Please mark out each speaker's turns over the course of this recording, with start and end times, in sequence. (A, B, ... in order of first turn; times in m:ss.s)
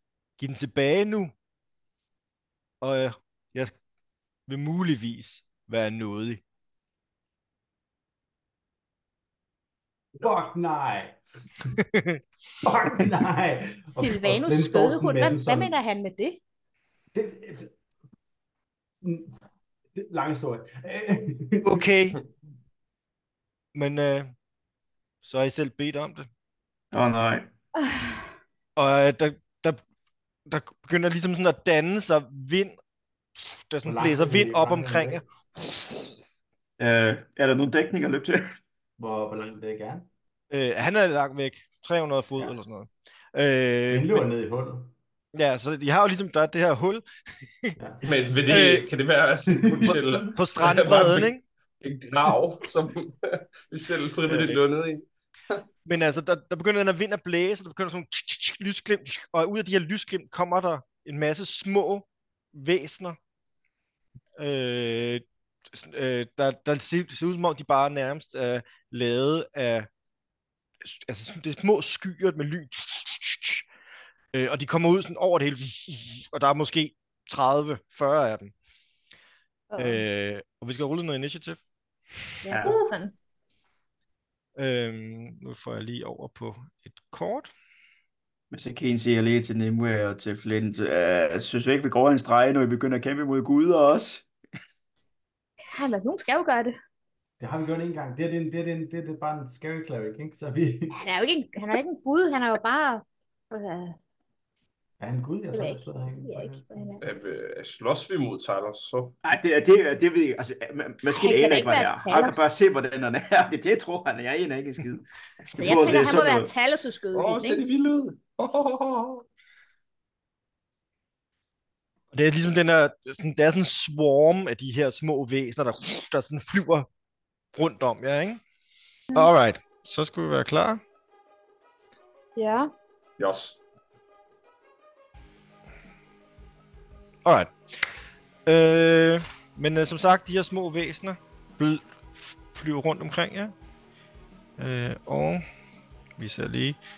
0:00.4-0:01.3 A
0:02.8-0:03.7 A
0:04.5-0:06.4 A
0:10.2-0:11.7 B
0:11.8-0:12.2 A
0:12.6-0:15.7 B
0:13.9-0:16.4 C
0:17.1-0:17.7 B
0:19.0-0:19.3 B
0:19.9-0:21.8 B
0:21.6-0:22.2 A
0:23.7-0:24.3 A
0:25.2-0:26.3 A
0:26.9-0:27.5 D
0:27.8-0:28.1 C
0:28.8-0:29.8 A
0:30.4-0:32.7 A
0:33.4-0:35.9 A
0:33.8-0:35.2 B
0:36.8-0:38.5 D
0:39.0-0:40.1 B
0:40.5-0:44.3 A
0:43.9-0:44.9 B
0:45.3-0:47.0 A
0:47.8-0:48.1 B
0:48.0-0:55.6 E
0:48.5-0:48.9 A
0:49.6-0:50.2 B
0:49.9-0:51.4 A
0:54.2-0:54.6 A
0:55.8-1:03.2 A
1:04.4-1:09.9 A
1:10.8-1:13.7 A
1:14.3-1:18.5 A
1:19.7-1:20.0 C
1:19.8-1:21.6 A
1:22.4-1:23.1 C
1:22.5-1:22.8 D
1:24.6-1:27.5 A
1:28.5-1:34.3 D
1:35.7-1:36.7 C
1:37.4-1:41.0 B
1:40.9-1:44.0 C
1:45.0-1:46.8 B
1:45.5-1:47.0 C
1:47.0-1:49.2 E
1:49.2-1:56.5 D
1:51.1-1:52.5 C
1:55.6-1:57.6 C
1:55.8-1:56.2 E
1:57.1-1:59.2 E
2:02.1-2:06.9 A
2:07.5-2:08.4 A
2:09.1-2:10.8 A
2:12.4-2:12.7 C
2:13.2-2:13.6 E
2:17.2-2:17.9 A
2:18.4-2:23.5 A
2:24.6-2:25.4 A
2:26.2-2:26.8 A